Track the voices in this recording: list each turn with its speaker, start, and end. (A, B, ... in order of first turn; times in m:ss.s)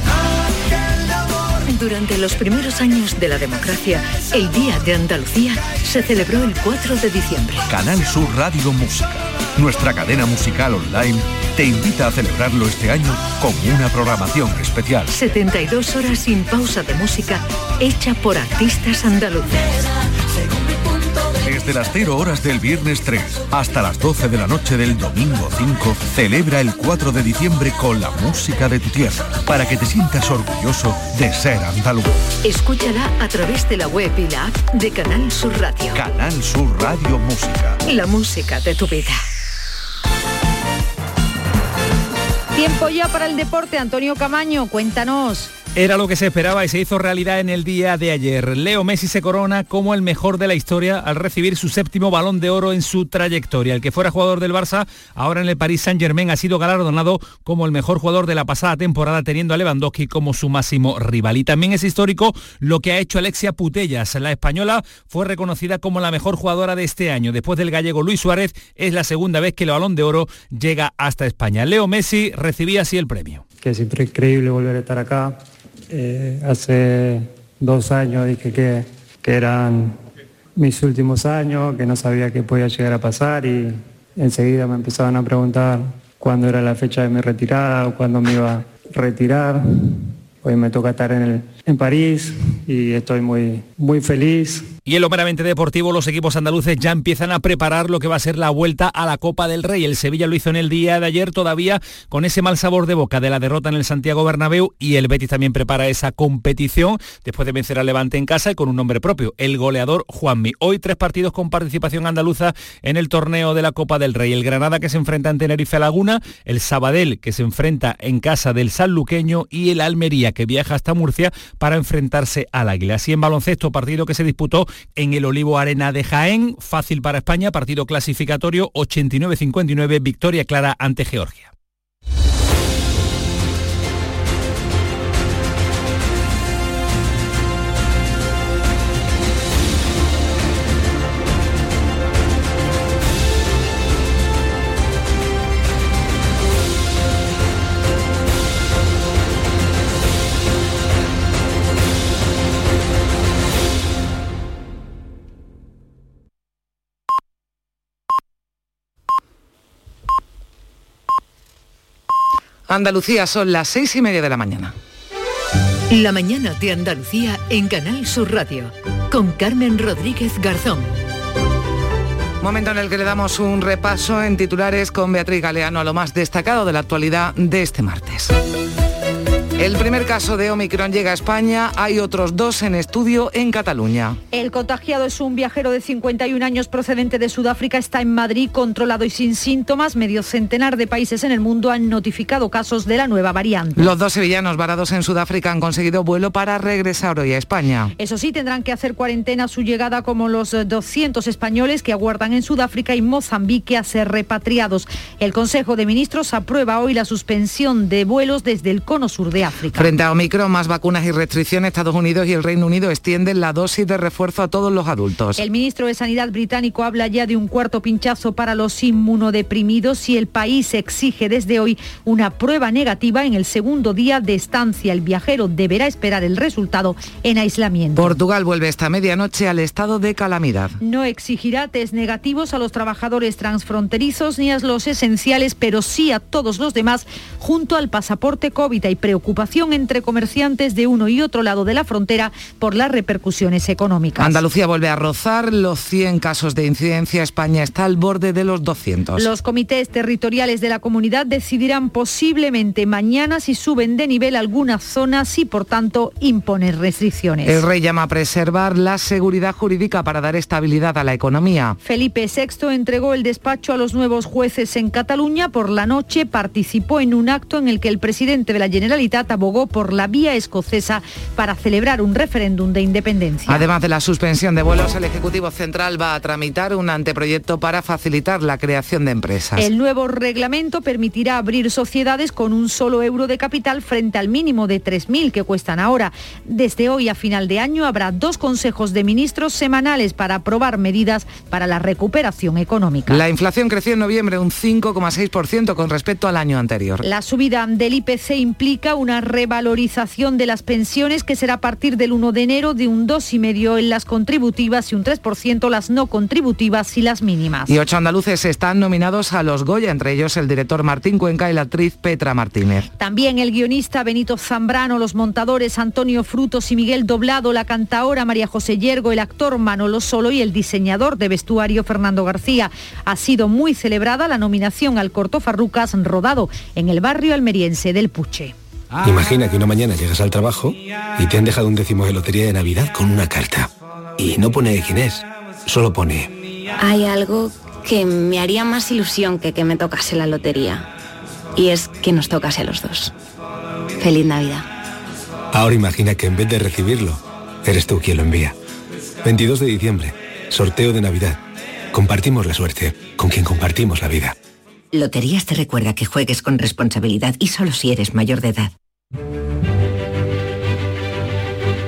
0:01.7-0:07.7 A
0:07.7-0:15.1 B
0:15.1-0:19.7 A
0:21.4-0:32.2 B
0:32.4-0:36.0 A
0:35.9-0:37.8 B
0:37.8-0:39.2 A
0:42.6-0:45.5 C
0:45.8-1:13.4 D
1:13.6-1:15.4 E
1:15.9-1:20.0 E
1:20.6-1:34.7 E
1:34.9-2:11.5 D
2:42.7-2:44.7 F
2:45.9-2:51.0 A
2:52.4-2:58.4 F
2:59.6-3:04.2 F
3:04.3-3:13.9 C
3:13.8-3:17.9 F
3:18.0-3:29.9 C
3:29.8-3:35.4 F
3:35.4-3:48.2 C
3:48.0-3:50.8 F
3:50.8-4:04.4 C
4:04.2-4:09.3 F
4:09.2-4:17.6 C
4:17.4-4:21.8 F
4:21.8-4:33.7 C
4:33.5-4:39.7 F
4:39.6-4:53.2 C
4:53.1-4:57.0 F
4:57.0-5:07.7 C
5:07.7-5:12.9 F
5:13.0-5:28.5 C
5:29.0-5:36.3 G
5:36.8-5:40.9 H
5:41.6-5:43.1 H
5:44.0-5:44.7 H
5:45.5-5:48.6 G
5:49.2-5:51.4 G
5:51.9-5:54.4 G
5:54.9-5:58.7 I